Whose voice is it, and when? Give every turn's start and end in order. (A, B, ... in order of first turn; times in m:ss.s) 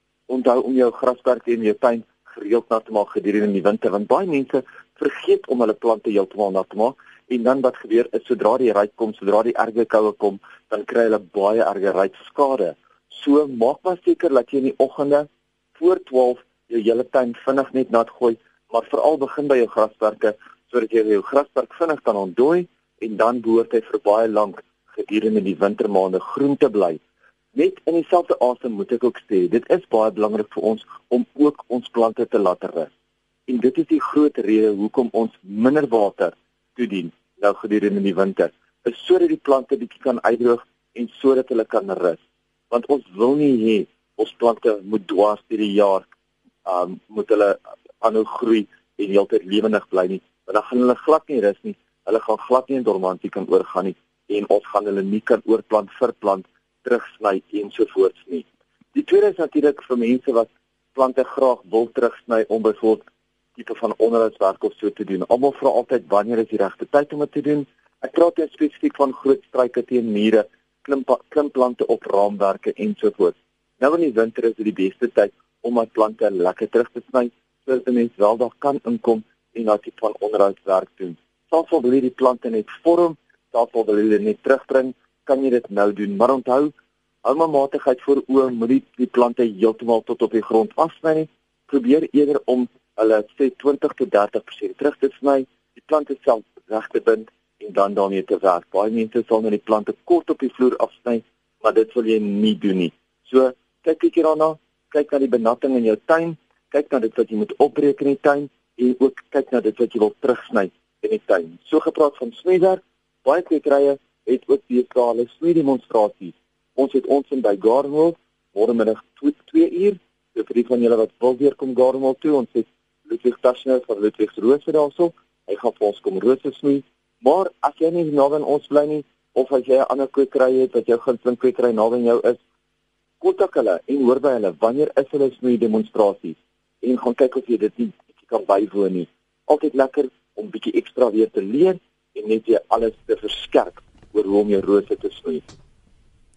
0:00.3-0:27.0 A
0:27.6-0:32.9 A
0:33.5-0:42.2 A
0:42.7-0:46.1 A
0:46.6-1:03.0 A
1:03.6-1:26.7 A
1:27.2-2:12.4 A
2:13.2-2:25.5 A